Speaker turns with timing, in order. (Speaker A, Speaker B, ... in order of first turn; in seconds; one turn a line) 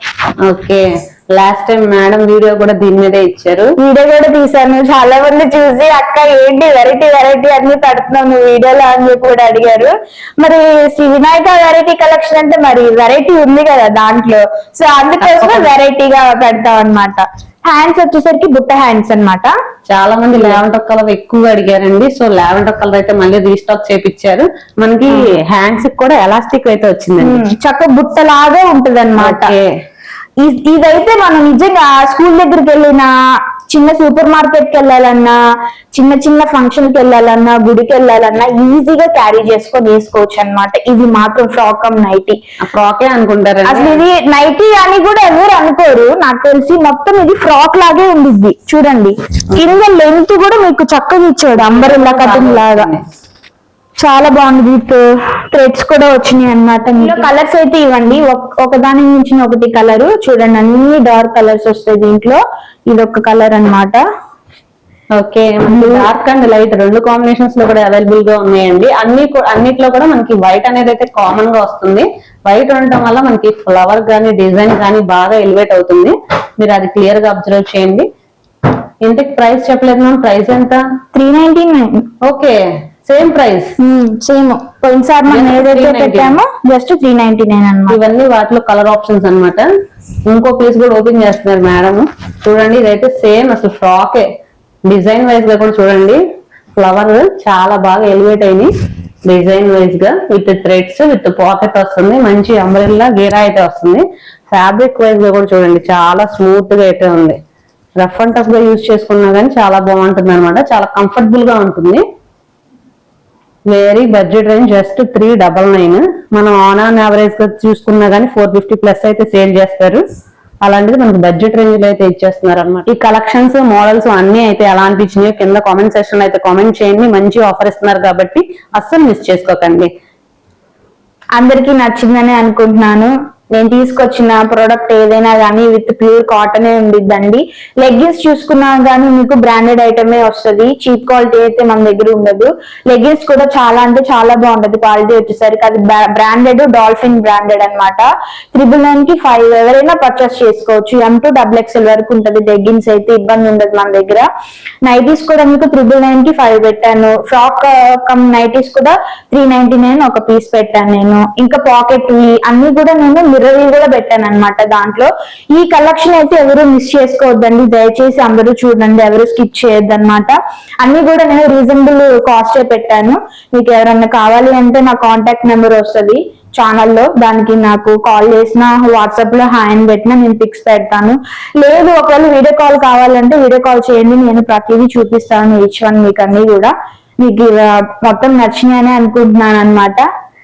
Speaker A: 0.4-3.7
Speaker B: 3.8-19.5
Speaker A: 15.2-15.7
Speaker A: 19.9-27.4
Speaker B: 27.2-29.5
Speaker A: 29.2-29.7
Speaker B: 30.4-33.1
Speaker B: 33.7-35.3
Speaker B: 35.9-42.4
Speaker A: 42.6-44.0
Speaker B: 43.6-52.9
Speaker A: 51.6-53.0
Speaker B: 54.0-64.0
Speaker A: 65.1-78.1
Speaker B: 65.7-66.1
Speaker A: 79.0-80.8
Speaker B: 81.1-82.0
Speaker A: 82.2-83.7
Speaker B: 83.8-88.0
Speaker A: 85.3-86.4
Speaker A: 87.9-89.7
Speaker A: 90.3-94.2
Speaker A: 94.9-96.2
Speaker A: 96.8-98.7
Speaker A: 99.2-107.4
Speaker A: 108.0-112.0
Speaker A: 113.7-120.0
Speaker A: 120.6-129.9
Speaker B: 131.3-154.3
Speaker B: 154.8-190.1